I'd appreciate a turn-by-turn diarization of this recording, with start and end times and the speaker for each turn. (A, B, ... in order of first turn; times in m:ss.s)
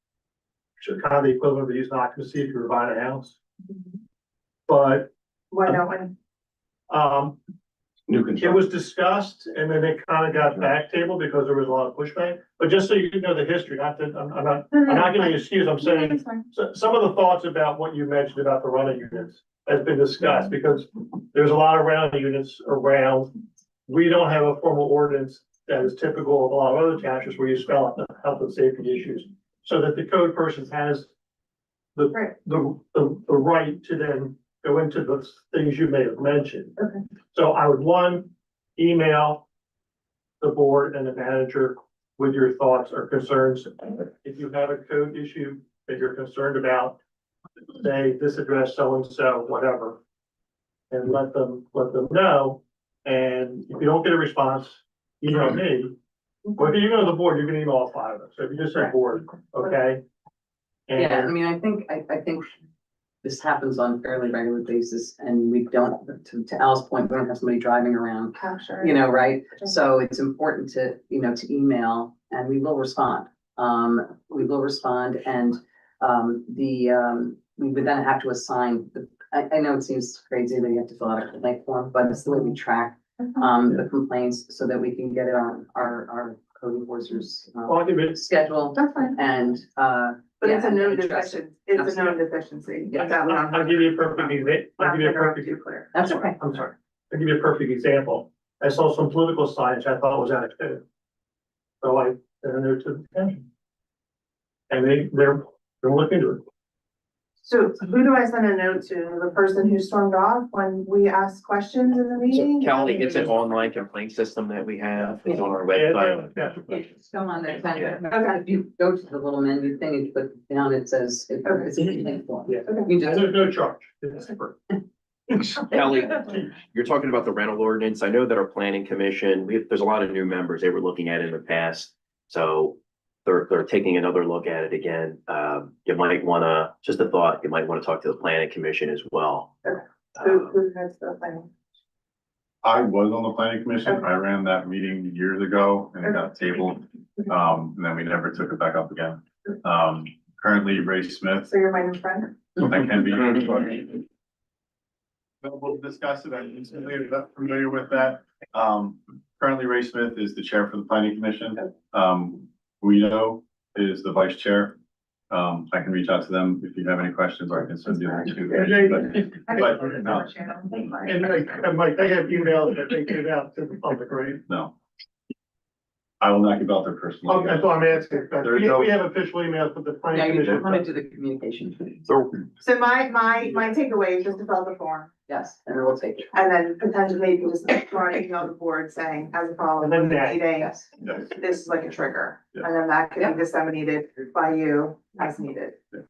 0:00.8-0:03.4 A
0:04.7-0:05.1 A
0:05.5-0:06.1 B
0:06.9-0:07.4 A
0:08.1-0:08.6 C
0:08.4-0:23.3 A
0:14.8-0:16.4 B
0:23.9-0:31.1 A
0:31.9-0:36.8 A
0:37.3-0:39.4 A
0:40.4-0:47.0 A
0:47.7-0:50.0 A
0:50.9-0:55.9 A
0:56.6-1:00.0 A
1:00.9-1:01.3 A
1:00.9-1:02.5 D
1:03.2-1:32.2 D
1:08.3-1:09.7 B
1:27.6-1:28.2 A
1:28.7-1:29.2 B
1:30.4-1:36.1 B
1:32.9-1:33.2 D
1:33.0-1:40.8 A
1:35.9-1:36.4 D
1:41.8-1:43.4 A
1:44.7-1:46.4 A
1:47.4-1:53.4 B
1:52.3-1:56.7 C
1:55.7-1:56.8 A
1:56.7-2:03.4 D
1:57.7-1:58.0 C
1:58.0-1:58.3 B
2:02.4-2:04.8 A
2:05.3-2:05.6 A
2:05.4-2:19.5 C
2:19.6-2:21.5 B
2:20.2-2:20.5 C
2:22.6-2:31.5 E
2:31.4-2:32.5 B
2:32.6-2:34.0 E
2:35.4-2:44.8 E
2:45.3-2:50.3 E
2:47.9-2:51.2 B
2:48.5-2:49.9 A
2:51.0-2:54.4 A
2:54.5-2:54.7 E
2:56.2-2:57.7 E
2:57.2-3:00.9 A
2:58.4-2:58.9 E
3:00.1-3:02.0 D
3:02.0-3:02.4 C
3:02.6-3:05.1 B
3:05.3-3:06.3 D
3:06.3-3:15.8 B
3:09.8-3:10.4 A
3:10.6-3:10.9 D